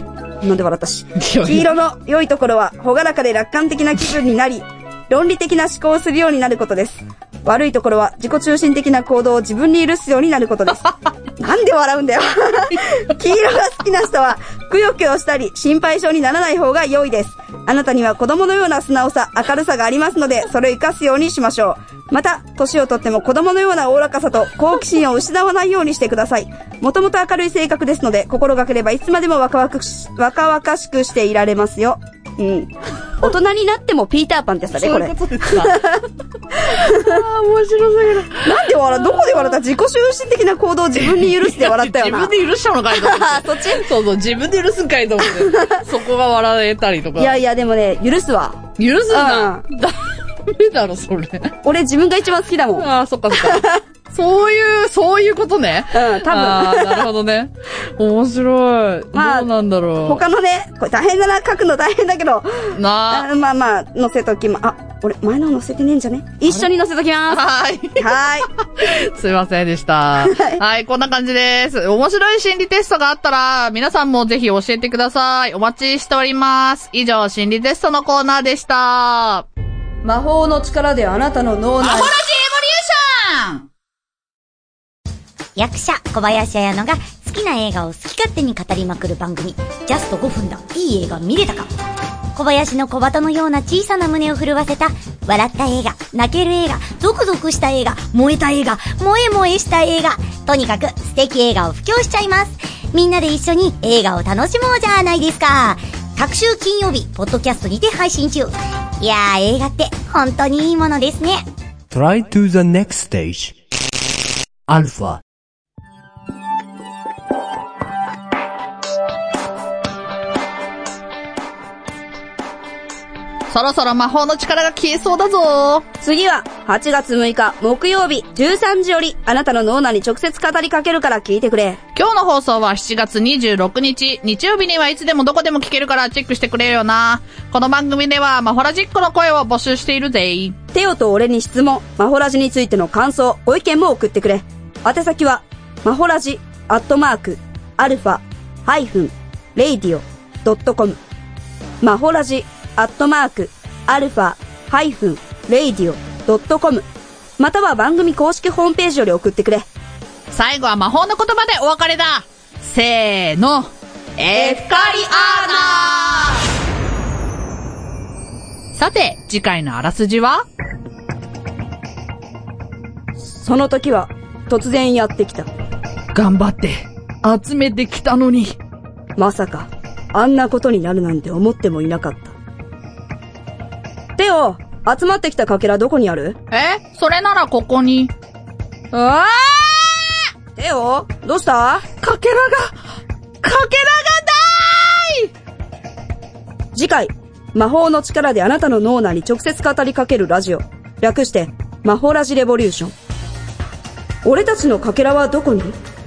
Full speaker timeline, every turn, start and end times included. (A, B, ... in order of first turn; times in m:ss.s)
0:00.4-0:36.0 A
0:01.2-0:01.7 B
0:34.8-0:35.8 B
0:36.7-0:39.6 B
0:36.7-0:37.0 A
0:38.4-0:42.3 A
0:41.0-0:47.3 B
0:42.9-0:43.8 A
0:47.2-0:49.6 A
0:48.8-0:51.5 B
0:51.6-0:53.8 A
0:52.8-1:00.2 B
0:55.9-0:57.1 A
0:59.1-0:59.5 A
1:00.0-1:07.4 A
1:02.7-1:03.3 B
1:07.3-1:08.0 B
1:08.0-1:08.5 A
1:08.7-1:19.4 B
1:20.0-1:22.1 A
1:21.8-1:23.6 B
1:25.6-1:31.7 C
1:32.3-1:51.4 C
1:51.9-1:53.5 D
1:54.7-1:55.2 D
2:03.5-2:05.8 B
2:06.0-2:11.8 A
2:11.9-2:20.6 B
2:20.7-2:31.0 A
2:31.8-2:36.8 A
2:37.4-2:39.7 A
2:40.3-2:46.4 B
2:44.3-2:45.4 A
2:48.7-2:50.4 B
2:53.2-2:55.5 A
2:56.1-2:58.6 B
2:59.2-3:02.3 A
3:04.2-3:06.4 A
3:06.5-3:08.1 B
3:08.9-3:10.0 B
3:10.6-3:11.8 A
3:12.0-3:12.7 B
3:13.4-3:15.3 B
3:16.7-3:22.9 A
3:24.2-3:25.8 A